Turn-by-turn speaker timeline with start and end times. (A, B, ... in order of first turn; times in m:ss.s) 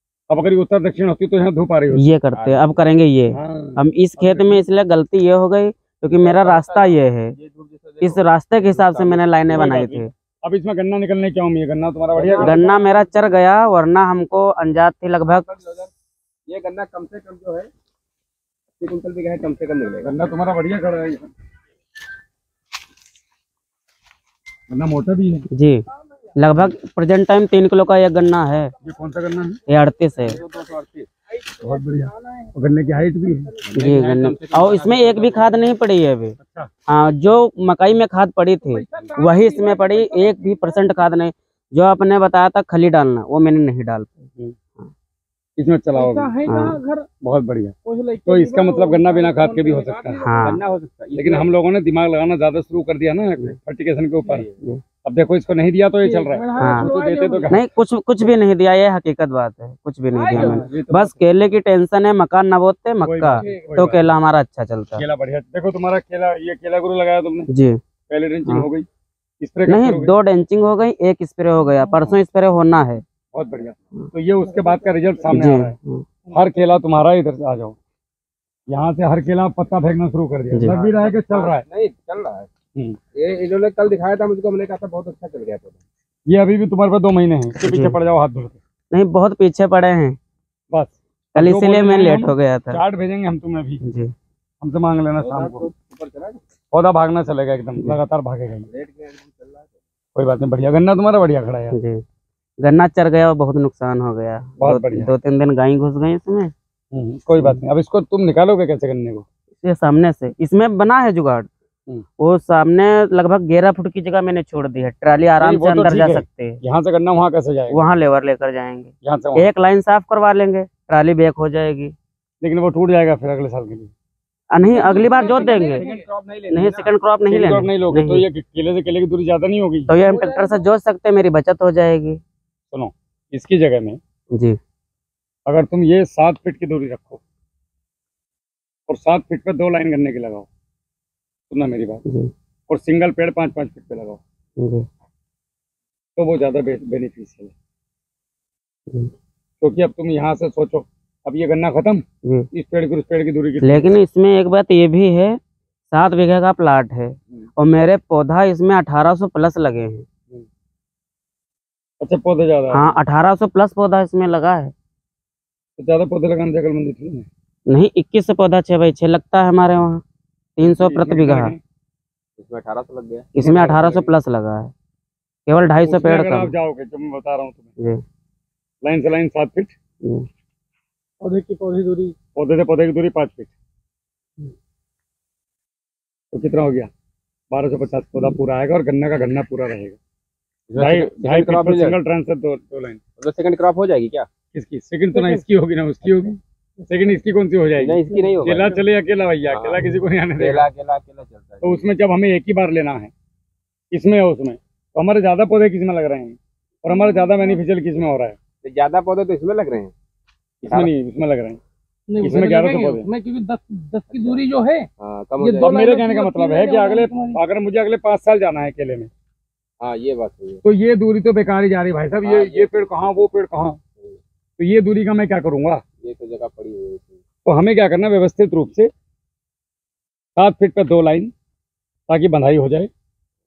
0:00.3-0:02.1 A
0:01.9-0:07.3 B
0:02.3-0:02.7 C
0:03.3-0:04.6 A
0:06.2-0:09.2 C
0:08.0-0:10.1 B
0:09.5-0:12.6 A
0:12.1-0:12.9 C
0:12.4-0:15.4 B
0:15.3-0:15.9 C
0:16.5-0:17.7 C
0:18.8-0:20.1 C
0:20.0-0:21.3 A
0:24.7-0:25.5 A
0:25.5-0:25.8 B
0:26.4-0:28.7 B
0:28.8-0:29.6 A
0:29.7-0:30.4 B
0:30.3-0:31.1 C
0:31.6-0:33.5 A
0:33.6-0:35.6 C
0:33.8-0:44.3 B
0:36.4-0:36.7 A
0:38.6-0:40.7 D
0:45.6-0:46.4 A
0:45.9-0:47.1 D
0:46.4-0:46.8 B
0:47.2-0:47.7 A
0:47.8-0:50.5 D
0:48.2-0:50.2 A
0:50.2-0:50.6 B
0:50.4-0:51.5 C
0:51.1-0:54.4 A
0:54.2-0:54.6 C
0:55.0-0:57.6 A
0:56.0-0:57.6 D
0:56.6-0:56.9 B
0:57.5-1:05.0 B
1:00.1-1:00.6 D
1:00.3-1:01.2 A
1:03.0-1:04.0 A
1:03.4-1:03.8 D
1:05.0-1:07.5 A
1:07.5-1:07.8 B
1:08.1-1:08.9 A
1:09.4-1:10.1 A
1:09.7-1:13.0 B
1:13.3-1:15.8 A
1:15.3-1:16.0 B
1:16.3-1:16.6 D
1:16.3-1:17.8 A
1:18.7-1:21.6 A
1:20.7-1:22.5 C
1:23.1-1:25.8 C
1:26.3-1:28.6 A
1:27.6-1:28.0 B
1:28.9-1:30.2 B
1:30.7-1:33.8 A
1:31.3-1:32.8 B
1:33.8-1:34.1 B
1:34.6-1:35.7 A
1:35.2-1:36.4 C
1:36.7-1:38.7 A
1:38.7-1:39.7 C
1:40.1-1:41.7 A
1:41.7-1:42.0 B
1:42.6-1:46.5 B
1:44.6-1:45.1 A
1:46.9-1:49.2 A
1:49.6-1:51.5 B
1:52.2-1:56.6 B
1:55.4-1:57.8 A
1:57.7-2:01.9 B
1:59.0-1:59.5 A
2:02.4-2:03.9 A
2:04.5-2:05.8 B
2:04.6-2:06.0 D
2:04.9-2:06.9 C
2:06.5-2:08.2 B
2:07.3-2:09.9 A
2:09.9-2:12.2 B
2:10.0-2:10.7 D
2:12.7-2:14.0 A
2:14.3-2:14.6 B
2:15.4-2:17.2 A
2:18.9-2:20.5 A
2:21.5-2:22.0 A
2:22.0-2:22.3 B
2:22.7-2:24.2 A
2:24.6-2:24.8 B
2:26.2-2:27.5 A
2:29.6-2:34.0 A
2:33.6-2:35.4 B
2:35.9-2:40.0 B
2:42.0-2:42.9 A
2:42.7-2:44.7 B
2:45.8-2:47.3 A
2:47.7-2:50.0 B
2:50.6-2:51.5 B
2:50.6-2:51.6 A
2:52.4-2:54.1 C
2:53.3-2:54.7 B
2:53.4-2:53.8 A
2:55.4-2:56.5 B
2:55.8-2:57.7 A
2:58.8-2:59.7 A
3:01.2-3:02.1 D
3:02.4-3:03.5 A
3:06.3-3:06.9 A
3:07.5-3:10.0 A
3:10.7-3:12.0 C
3:10.8-3:13.0 A
3:13.2-3:14.3 C
3:14.5-3:16.4 A
3:15.1-3:15.4 D
3:16.9-3:20.7 A
3:17.8-3:18.7 C
3:18.1-3:18.8 D
3:19.5-3:21.8 C
3:21.6-3:23.1 A
3:23.9-3:28.4 A
3:26.9-3:27.6 D
3:28.6-3:29.9 C
3:30.6-3:31.6 A
3:30.6-3:30.9 C
3:32.1-3:37.4 D
3:32.2-3:33.1 A
3:34.1-3:34.4 C
3:35.0-3:35.9 C
3:35.6-3:39.1 A
3:39.8-3:40.6 C
3:40.6-3:43.8 A
3:42.2-3:43.2 C
3:44.6-3:45.8 A
3:46.0-3:47.2 C
3:47.4-3:48.9 A
3:50.4-3:51.3 A
3:52.1-3:52.9 A